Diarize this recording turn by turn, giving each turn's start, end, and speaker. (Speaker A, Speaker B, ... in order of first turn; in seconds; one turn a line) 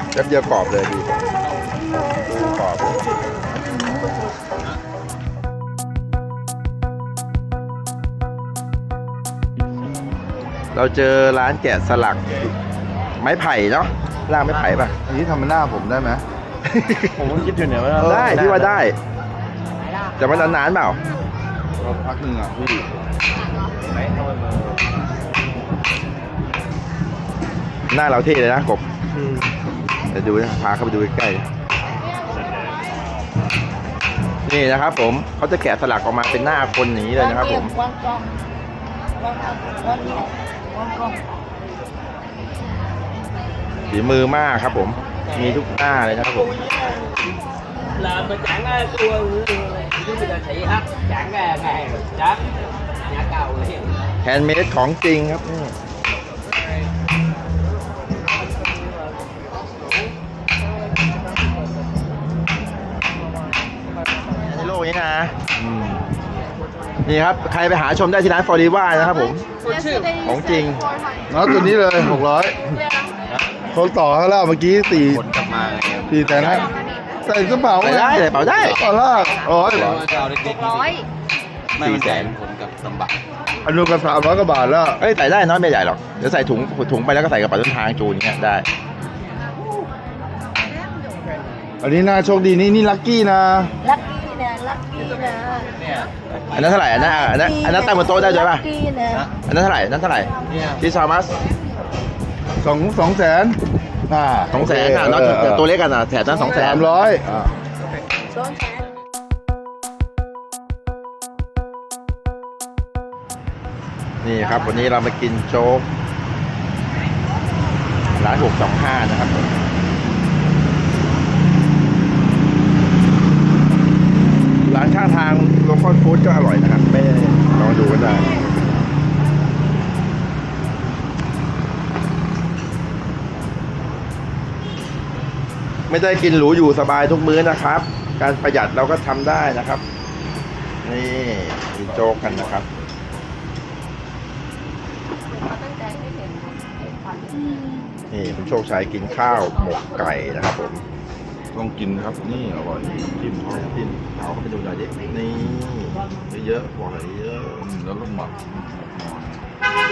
Speaker A: 0.1-1.1
Speaker A: 2.2-3.0
Speaker A: 10.7-12.5
Speaker A: 13.2-15.0
Speaker B: 15.0-16.2
Speaker A: 16.6-17.2
Speaker C: 17.2-18.8
Speaker A: 18.0-19.0
Speaker A: 20.2-21.0
Speaker B: 21.8-22.9
Speaker C: 23.8-24.7
Speaker A: 27.9-28.9
Speaker A: 30.1-31.5
Speaker A: 34.5-37.7
Speaker D: 37.2-38.2
Speaker D: 39.2-41.2
Speaker A: 43.9-46.5
Speaker E: 46.2-47.2
Speaker E: 47.9-52.5
Speaker E: 53.0-54.1
Speaker A: 54.2-55.8
Speaker A: 64.4-65.3
Speaker B: 65.6-66.0
Speaker A: 67.0-69.5
Speaker E: 69.7-69.9
Speaker A: 70.2-70.8
Speaker B: 71.3-72.7
Speaker B: 73.7-75.3
Speaker C: 75.1-76.4
Speaker B: 76.1-80.2
Speaker A: 76.3-76.7
Speaker A: 77.8-78.9
Speaker C: 80.3-80.8
Speaker A: 81.8-82.4
Speaker C: 82.0-83.1
Speaker B: 83.6-85.0
Speaker A: 85.0-88.7
Speaker B: 91.8-93.7
Speaker D: 93.8-95.7
Speaker A: 96.5-98.7
Speaker D: 96.8-99.3
Speaker A: 99.5-101.3
Speaker B: 102.6-105.7
Speaker A: 104.5-106.9
Speaker B: 106.4-107.5
Speaker D: 108.3-108.9
Speaker A: 114.2-115.9
Speaker A: 118.2-119.5
Speaker A: 124.7-128.3
Speaker A: 135.9-139.8
Speaker A: 140.8-142.7
Speaker B: 141.8-142.7
Speaker A: 148.1-150.8
Speaker B: 151.5-153.8
Speaker A: 153.5-157.6
Speaker B: 157.6-159.6